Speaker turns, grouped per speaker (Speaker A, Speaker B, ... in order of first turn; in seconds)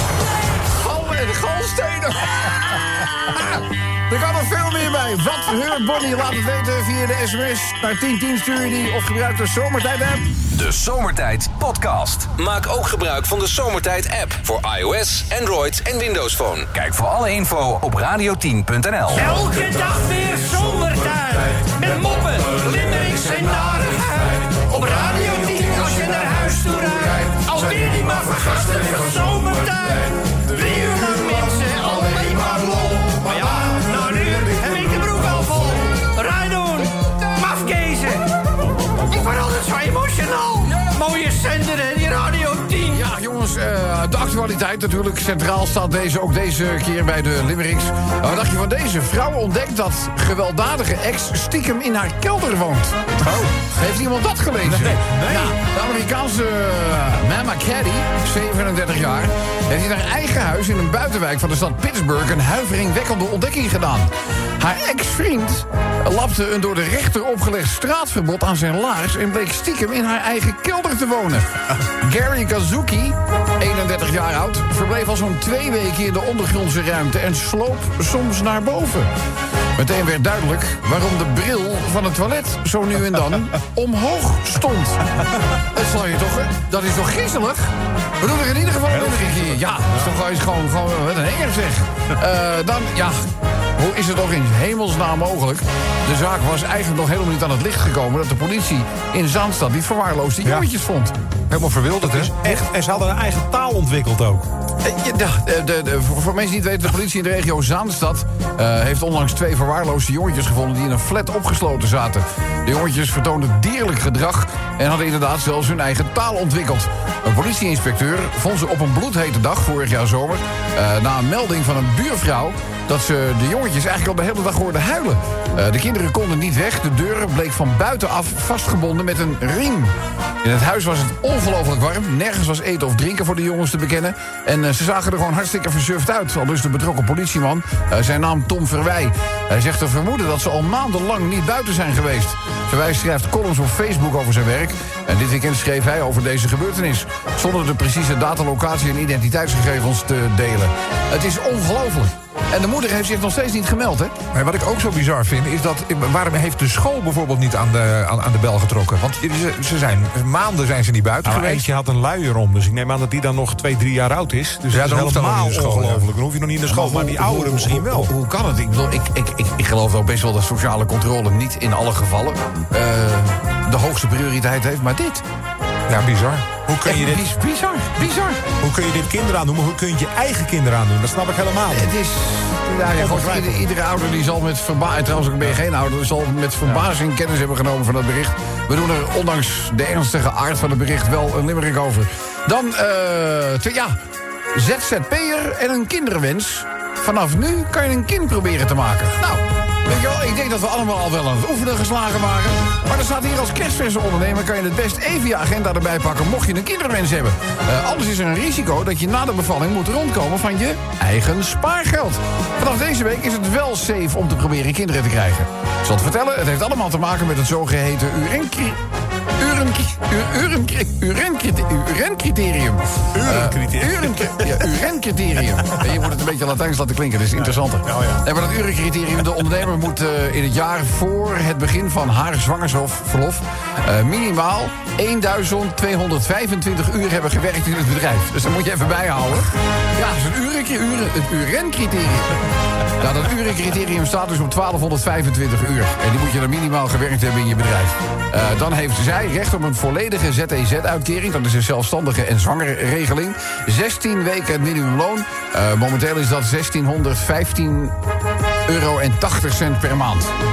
Speaker A: 0.7-10.3, 40.6-41.0, 42.9-53.0, 53.5-79.1, 79.8-85.0, 85.7-101.1, 104.8-154.1, 166.6-175.2, 176.8-178.4, 181.7-193.9, 194.5-218.8, 219.4-242.4, 243.0-257.9, 258.6-260.3
Speaker B: 10.5-19.3
Speaker C: 19.1-38.2, 39.0-43.0
Speaker D: 53.2-53.5, 54.6-55.5, 88.9-90.1, 102.0-104.5, 161.2-168.1, 176.5-177.3, 178.6-181.9, 182.9-183.7, 223.1-224.7, 227.4-228.2
Speaker E: 101.5-102.3, 154.3-161.7, 164.7-166.1, 175.9-176.4